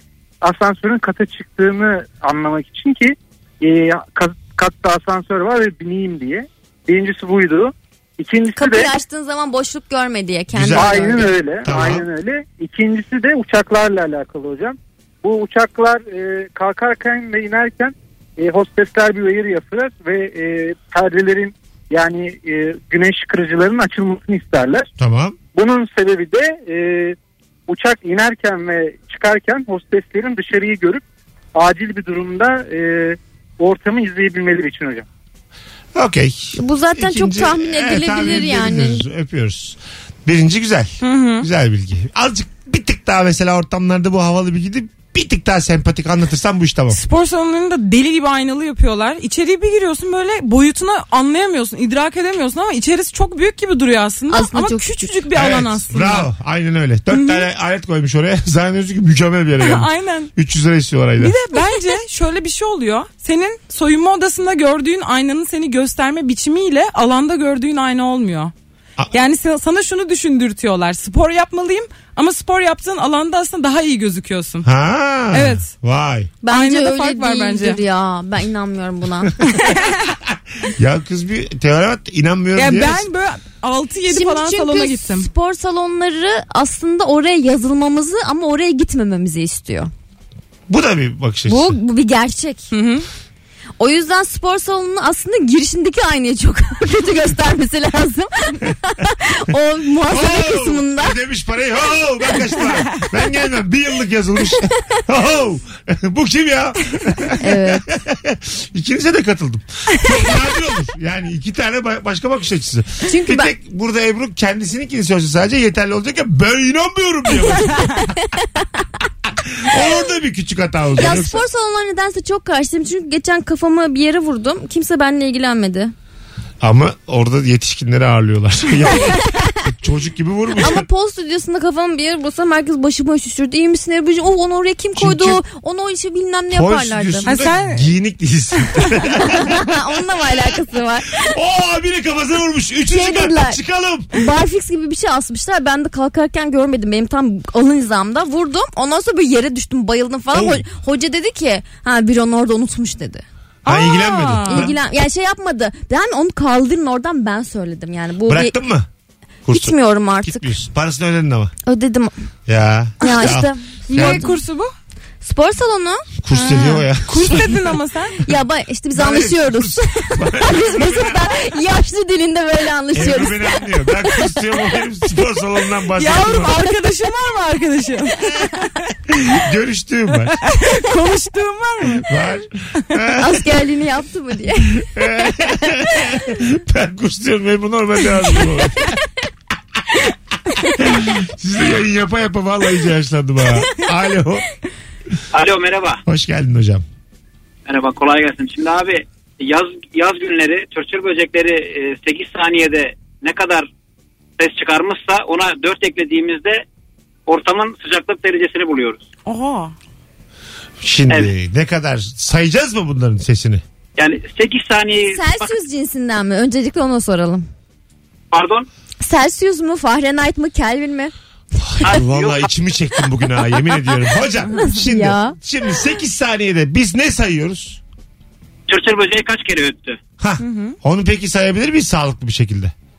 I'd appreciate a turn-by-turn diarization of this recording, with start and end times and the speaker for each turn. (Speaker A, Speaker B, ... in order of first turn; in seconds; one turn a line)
Speaker A: 0.4-8.9
Speaker B: 8.5-11.3
Speaker C: 10.5-12.1
Speaker A: 10.7-24.9
Speaker C: 25.0-25.4
Speaker A: 25.5-27.1
Speaker A: 27.7-31.0
Speaker A: 31.5-35.0
Speaker C: 35.9-47.0
Speaker B: 36.5-39.0
Speaker D: 41.0-41.5
Speaker D: 46.9-56.3
Speaker B: 54.3-55.3
Speaker C: 55.3-61.4
Speaker D: 57.1-57.4
Speaker D: 59.6-60.3
Speaker D: 61.2-68.5
Speaker D: 69.1-74.7
Speaker C: 74.6-76.3
Speaker D: 75.3-75.7
Speaker B: 76.4-79.3
Speaker D: 76.5-77.8
Speaker D: 79.5-80.0
Speaker C: 80.6-83.1
Speaker D: 82.5-85.3
Speaker B: 84.1-89.9
Speaker C: 90.7-91.8
Speaker B: 91.5-92.7
Speaker D: 92.7-93.0
Speaker B: 93.8-101.1
Speaker C: 100.1-118.1
Speaker B: 107.4-107.8
Speaker B: 113.0-113.5
Speaker C: 119.4-121.4
Speaker B: 121.0-125.9
Speaker C: 126.6-130.8
Speaker B: 129.1-129.5
Speaker B: 130.6-137.3
Speaker C: 134.9-135.4
Speaker C: 136.5-139.7
Speaker D: 137.2-137.9
Speaker B: 139.3-141.3
Speaker C: 141.2-144.1
Speaker B: 142.9-143.6
Speaker B: 144.1-153.2
Speaker C: 150.3-150.6
Speaker D: 153.6-154.7
Speaker C: 153.6-154.7
Speaker B: 154.5-158.6
Speaker C: 158.2-158.9
Speaker C: 159.5-161.5
Speaker B: 159.5-160.5
Speaker B: 161.7-162.1
Speaker C: 162.5-164.2
Speaker B: 163.0-164.3
Speaker D: 163.9-164.7
Speaker B: 165.2-166.1
Speaker C: 166.2-167.4
Speaker D: 166.3-168.3
Speaker B: 168.2-174.2
Speaker C: 168.9-171.3
Speaker C: 172.9-176.5
Speaker D: 175.9-178.7
Speaker C: 179.1-180.4
Speaker D: 180.5-182.1
Speaker C: 182.0-183.4
Speaker B: 183.2-184.8
Speaker C: 184.8-188.9
Speaker C: 190.8-194.4
Speaker E: 195.3-196.0
Speaker C: 196.1-196.8
Speaker E: 197.7-203.7
Speaker E: 204.4-206.6
Speaker E: 207.3-209.0
Speaker D: 209.2-209.7
Speaker C: 210.8-213.6
Speaker E: 214.0-215.4
Speaker B: 215.0-217.4
Speaker E: 218.3-218.7
Speaker B: 219.0-221.1
Speaker C: 221.6-227.8
Speaker E: 221.8-222.5
Speaker B: 224.6-225.3
Speaker E: 228.7-230.0
Speaker C: 230.2-232.7
Speaker D: 230.4-230.8